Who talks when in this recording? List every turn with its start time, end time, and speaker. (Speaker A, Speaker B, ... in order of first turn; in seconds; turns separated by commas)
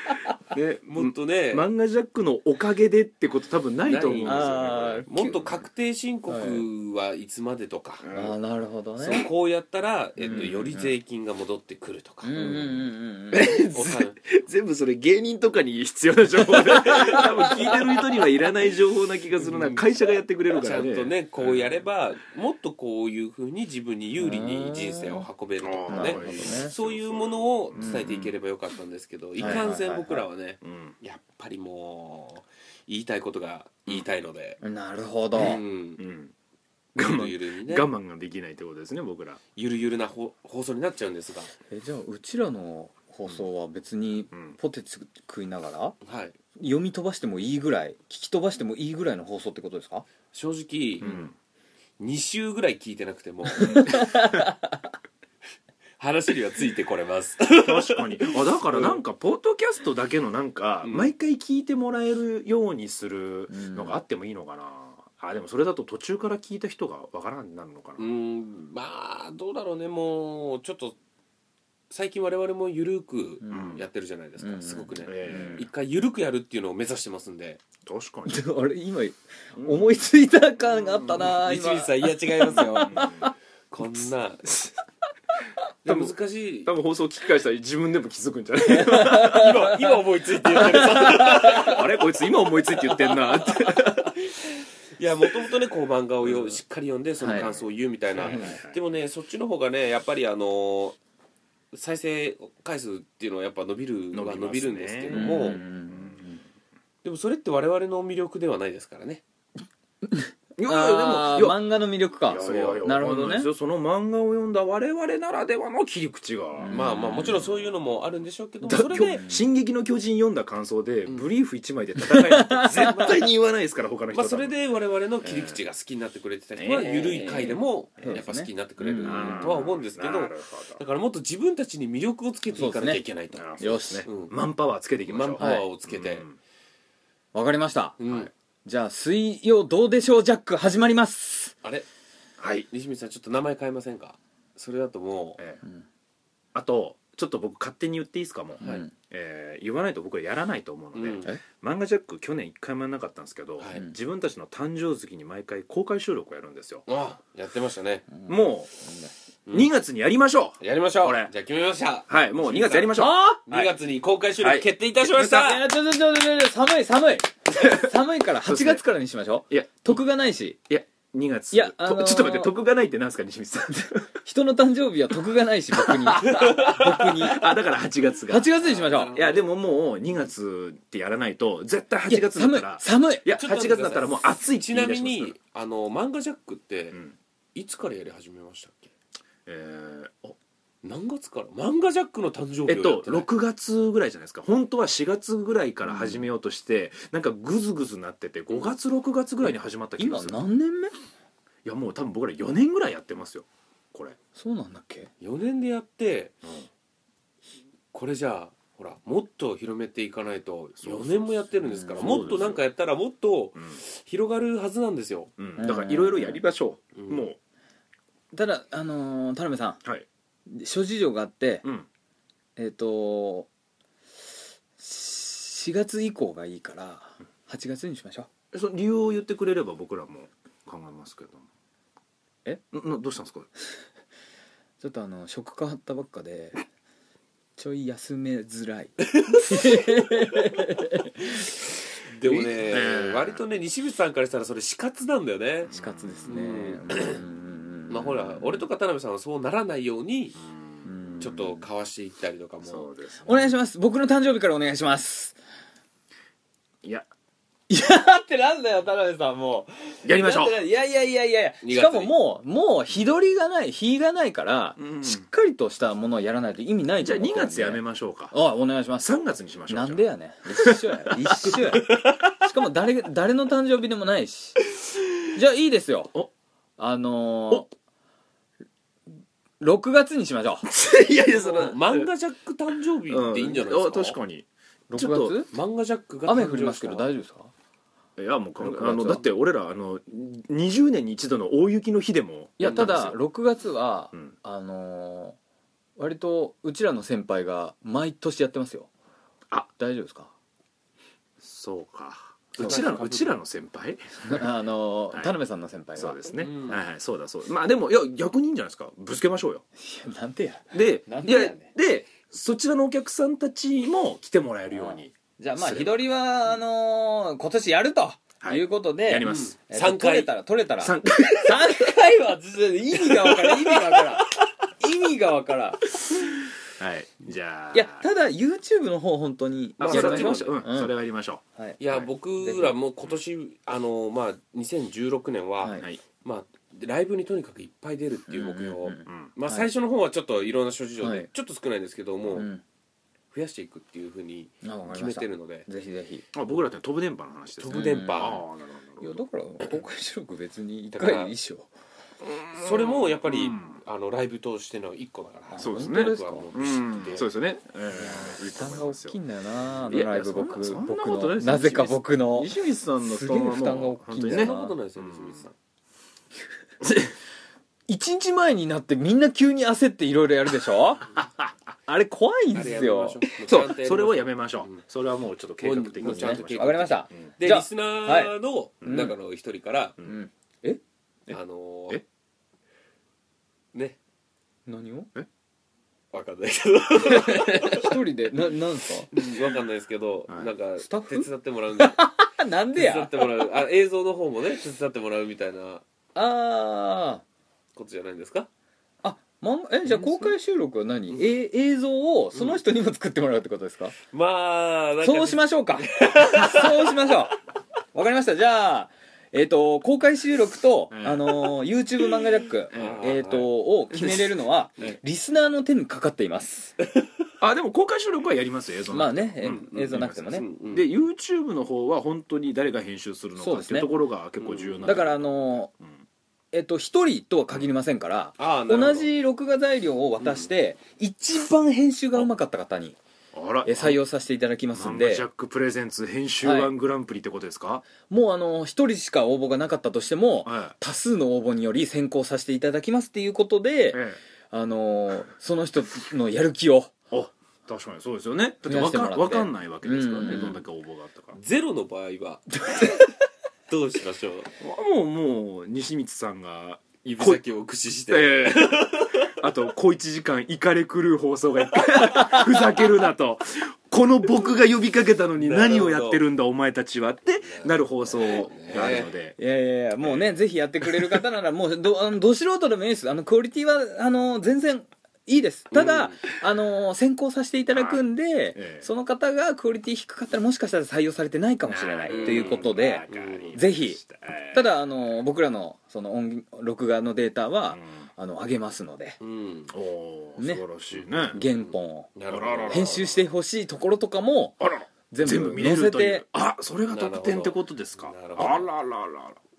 Speaker A: 0.4-5.5, Speaker B: 0.9-1.6, Speaker B: 3.9-8.1, Speaker C: 4.2-5.4, Speaker C: 6.3-6.7, Speaker A: 8.0-8.4, Speaker C: 8.1-9.3, Speaker B: 9.0-12.8, Speaker C: 10.2-10.9, Speaker A: 10.3-10.5, Speaker C: 12.2-13.6, Speaker A: 13.3-21.8, Speaker B: 13.5-14.2, Speaker B: 16.7-18.0, Speaker C: 16.7-17.3, Speaker B: 19.4-19.9, Speaker B: 20.5-34.6, Speaker C: 24.2-25.3, Speaker A: 25.6-28.3, Speaker C: 25.9-26.7, Speaker C: 27.8-28.1, Speaker C: 29.4-30.2, Speaker A: 30.6-30.9, Speaker C: 34.6-35.6, Speaker B: 35.3-36.0, Speaker A: 35.4-36.3, Speaker A: 37.0-39.4, Speaker B: 37.0-37.9, Speaker B: 39.6-41.5, Speaker C: 41.7-46.0, Speaker A: 44.3-44.6, Speaker B: 46.0-46.4, Speaker C: 46.6-50.1, Speaker B: 50.3-51.1, Speaker A: 51.0-51.3, Speaker B: 52.0-54.2, Speaker C: 53.6-54.9, Speaker A: 53.6-54.2, Speaker B: 56.0-59.0, Speaker A: 57.5-68.1, Speaker B: 60.9-61.1, Speaker C: 63.5-64.0, Speaker B: 68.0-71.0, Speaker B: 71.9-77.6, Speaker C: 73.4-73.8, Speaker A: 73.5-73.9, Speaker C: 74.4-75.7, Speaker A: 75.0-75.7, Speaker A: 77.8-78.5, Speaker C: 78.3-83.3, Speaker A: 79.6-79.9, Speaker A: 80.8-81.4, Speaker B: 81.2-83.1, Speaker A: 82.6-83.2, Speaker B: 83.7-84.5, Speaker A: 84.5-84.7, Speaker B: 85.8-86.7, Speaker A: 85.8-89.6, Speaker C: 88.7-89.9, Speaker B: 89.0-91.8, Speaker C: 90.5-91.8, Speaker A: 90.7-94.2, Speaker B: 93.1-101.0, Speaker C: 97.2-97.5, Speaker A: 97.3-98.8, Speaker C: 98.3-98.6, Speaker B: 101.7-105.6, Speaker A: 104.1-106.4, Speaker C: 105.1-106.4, Speaker B: 107.0-109.2, Speaker C: 110.0-113.5, Speaker A: 110.6-111.6, Speaker A: 112.3-116.8, Speaker B: 112.4-112.9, Speaker C: 116.6-117.4, Speaker B: 116.7-119.2, Speaker C: 118.7-119.5, Speaker A: 118.7-124.5, Speaker C: 122.0-123.2, Speaker B: 122.7-123.2, Speaker B: 124.1-134.3, Speaker A: 125.2-125.6, Speaker A: 126.6-127.3, Speaker C: 126.8-129.5, Speaker A: 129.0-130.8, Speaker C: 132.5-133.0, Speaker A: 133.3-136.4, Speaker C: 133.6-134.1, Speaker B: 135.1-136.3, Speaker C: 135.4-135.7, Speaker C: 137.3-138.0, Speaker B: 138.0-138.3, Speaker C: 138.7-141.6, Speaker A: 142.4-142.7, Speaker B: 142.7-145.4, Speaker A: 145.4-145.6, Speaker A: 146.6-156.9, Speaker B: 148.6-148.9, Speaker C: 148.6-148.9, Speaker B: 150.9-151.3, Speaker B: 153.6-153.9, Speaker B: 156.9-158.1, Speaker C: 158.2-159.1, Speaker A: 158.2-158.8, Speaker A: 159.5-161.3, Speaker B: 160.6-165.7, Speaker A: 162.1-163.2, Speaker C: 162.9-163.7, Speaker A: 164.4-164.7, Speaker C: 165.0-170.6, Speaker A: 167.5-167.9, Speaker A: 168.5-168.8, Speaker A: 169.5-170.0, Speaker A: 170.7-174.1, Speaker C: 171.5-172.5, Speaker C: 174.3-177.6, Speaker A: 175.7-178.5, Speaker B: 176.2-177.0, Speaker C: 178.3-179.2, Speaker B: 178.6-179.5, Speaker A: 179.1-185.3, Speaker C: 182.1-183.3, Speaker B: 183.3-187.0, Speaker B: 187.6-188.9, Speaker A: 189.5-190.4, Speaker B: 190.8-193.3, Speaker A: 192.7-200.4, Speaker C: 195.8-196.3, Speaker C: 200.0-200.9, Speaker A: 201.7-204.2, Speaker C: 204.4-205.1, Speaker B: 205.2-206.3, Speaker B: 207.9-215.3, Speaker A: 210.8-211.3, Speaker C: 211.8-212.4, Speaker A: 211.9-212.6, Speaker A: 215.4-217.4, Speaker C: 215.6-216.4, Speaker B: 217.0-217.3, Speaker C: 218.3-219.8, Speaker C: 220.5-221.7, Speaker C: 222.6-223.5, Speaker C: 224.8-228.3, Speaker A: 228.5-231.4, Speaker A: 232.7-233.5, Speaker C: 234.8-236.6, Speaker C: 237.6-241.5, Speaker B: 242.2-245.7, Speaker A: 242.2-243.4, Speaker A: 245.7-246.4, Speaker C: 245.7-248.6, Speaker B: 246.3-247.2, Speaker B: 247.9-250.4, Speaker A: 250.4-251.3, Speaker C: 250.8-251.6, Speaker B: 251.2-253.0, Speaker A: 252.6-253.4, Speaker C: 253.3-255.4, Speaker C: 257.7-269.1, Speaker A: 260.0-260.6, Speaker B: 261.6-262.1, Speaker A: 264.8-265.3, Speaker A: 267.0-268.4, Speaker A: 269.0-270.1, Speaker C: 269.7-274.6, Speaker A: 270.6-271.8, Speaker C: 275.4-276.1, Speaker C: 276.8-277.7, Speaker C: 279.6-280.7, Speaker A: 280.7-282.1, Speaker B: 281.3-284.2, Speaker A: 283.1-285.4, Speaker C: 284.9-285.5, Speaker B: 285.5-287.1, Speaker C: 286.3-287.5, Speaker A: 288.2-293.2, Speaker C: 288.6-289.2, Speaker C: 292.6-295.4, Speaker B: 292.6-293.1, Speaker C: 296.0-298.9, Speaker C: 299.8-300.3, Speaker A: 301.4-304.5, Speaker B: 302.6-303.4, Speaker C: 302.6-303.0, Speaker C: 304.2-306.3, Speaker A: 306.0-309.6, Speaker B: 306.4-306.8, Speaker C: 309.8-311.7, Speaker A: 310.7-316.6, Speaker C: 314.7-325.8, Speaker A: 318.4-319.6, Speaker B: 319.2-320.3, Speaker A: 320.8-321.8, Speaker B: 323.2-323.8, Speaker A: 326.8-328.1, Speaker C: 327.7-330.9, Speaker B: 329.8-330.6, Speaker A: 329.9-331.4, Speaker C: 331.6-332.8, Speaker B: 331.8-342.5, Speaker C: 338.3-339.7, Speaker A: 339.1-339.3, Speaker C: 341.0-341.3, Speaker C: 342.3-342.6, Speaker B: 343.3-345.7, Speaker C: 344.6-346.3, Speaker A: 346.3-349.2, Speaker B: 347.6-348.4, Speaker C: 347.7-348.4, Speaker C: 349.0-351.7, Speaker B: 350.9-351.4, Speaker A: 352.2-353.8, Speaker B: 352.5-357.3, Speaker C: 355.5-356.5, Speaker A: 355.6-359.2, Speaker C: 357.9-364.8, Speaker A: 359.9-365.5, Speaker B: 364.3-365.5, Speaker A: 366.8-367.1, Speaker C: 367.9-371.1, Speaker A: 371.2-371.5, Speaker C: 371.9-373.2, Speaker B: 372.5-374.8, Speaker A: 373.4-377.3, Speaker B: 375.6-380.0, Speaker C: 376.0-379.1, Speaker A: 378.8-379.1, Speaker C: 380.0-380.8, Speaker B: 381.3-382.0, Speaker C: 384.7-385.1, Speaker B: 386.1-388.0, Speaker C: 387.1-389.1, Speaker B: 389.1-392.0, Speaker C: 390.8-393.5, Speaker B: 392.7-395.8, Speaker C: 396.1-397.2, Speaker B: 397.8-398.5, Speaker C: 399.0-404.0, Speaker B: 399.9-400.3, Speaker B: 402.3-402.6, Speaker B: 404.1-405.4, Speaker C: 405.0-407.4, Speaker B: 406.0-406.7, Speaker C: 407.9-416.8, Speaker A: 410.9-411.5, Speaker A: 412.7-413.1, Speaker B: 412.7-413.5, Speaker A: 413.9-415.0, Speaker A: 417.4-425.9, Speaker C: 418.9-420.5, Speaker B: 419.4-420.9, Speaker C: 423.4-423.9, Speaker B: 424.4-424.9, Speaker C: 424.8-425.7, Speaker C: 426.5-433.0, Speaker B: 428.4-429.1, Speaker B: 430.2-430.5, Speaker A: 433.3-434.0, Speaker C: 433.6-435.2, Speaker A: 434.8-437.9, Speaker C: 436.4-436.7, Speaker C: 438.1-446.9, Speaker A: 440.4-440.8, Speaker A: 443.9-444.2, Speaker A: 447.1-451.4, Speaker C: 448.7-450.6, Speaker B: 450.2-450.6, Speaker B: 451.4-452.9, Speaker C: 452.6-453.1, Speaker B: 453.7-454.5, Speaker A: 454.6-457.4, Speaker B: 457.1-459.3, Speaker A: 458.1-469.4, Speaker B: 465.4-466.2, Speaker B: 467.4-469.1, Speaker C: 469.4-484.0, Speaker A: 470.1-470.3, Speaker B: 475.7-476.3, Speaker A: 477.7-478.0, Speaker A: 478.6-478.9, Speaker A: 481.7-484.7, Speaker B: 482.1-483.6, Speaker C: 484.5-489.2, Speaker A: 487.7-488.1, Speaker B: 489.2-489.7, Speaker A: 489.7-491.4, Speaker C: 490.4-490.6, Speaker B: 490.9-493.1, Speaker C: 491.3-492.1, Speaker A: 492.3-493.2, Speaker C: 492.7-496.2, Speaker A: 494.6-499.4, Speaker B: 496.9-498.7